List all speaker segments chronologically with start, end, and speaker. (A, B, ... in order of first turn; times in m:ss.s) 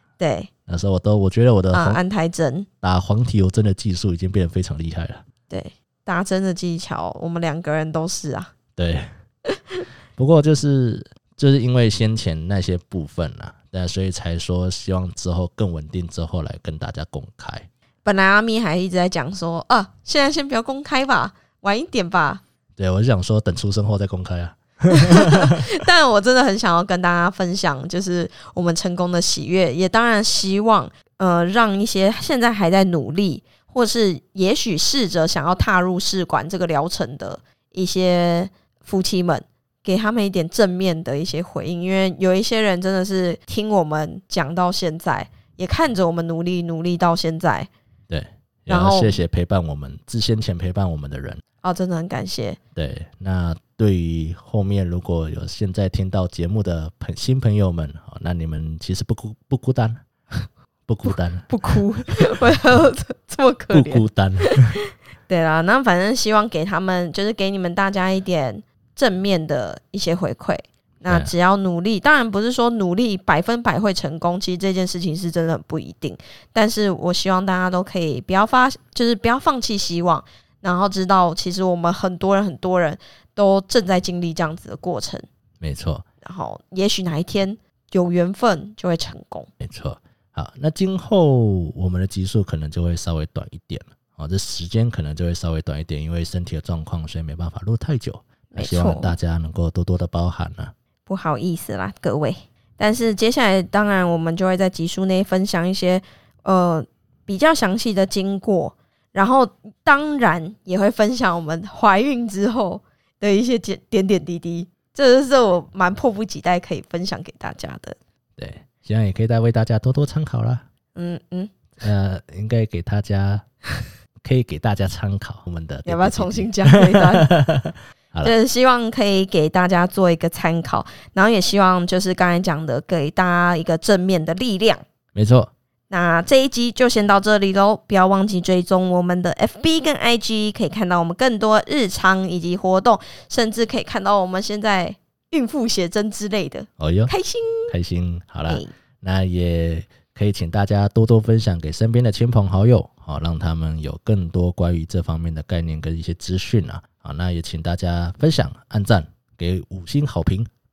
0:00.2-0:00.5 A
0:00.7-0:02.0 B
0:01.7-0:02.7 A
0:02.8-0:05.2 B
0:05.5-0:08.5 A
0:08.8-0:09.1 B
0:09.5-0:09.8 A
0:10.2-0:17.7 B
0:18.0-0:22.4 A
0:22.8-0:25.7 B
0:24.9-0:47.7 A
0:48.1-0:51.4 B
0:48.7-0:49.2 A
0:51.6-0:52.6 A
0:52.8-1:00.0 B
1:00.9-1:01.8 B
1:01.1-1:04.6 A
1:03.7-1:04.8 B
1:05.3-1:25.2 A
1:11.1-1:11.3 B
1:25.6-1:26.0 B
1:26.2-1:29.5 A
1:29.6-1:40.7 B
1:38.5-1:39.2 A
1:41.0-1:58.0 A
1:58.4-2:00.6 B
2:00.9-2:01.5 A
2:01.8-2:03.4 B
2:04.2-2:08.3 B
2:05.8-2:07.3 A
2:08.2-2:14.8 A
2:15.1-2:15.5 B
2:15.9-2:27.7 A
2:26.8-2:27.1 B
2:27.7-2:40.5 B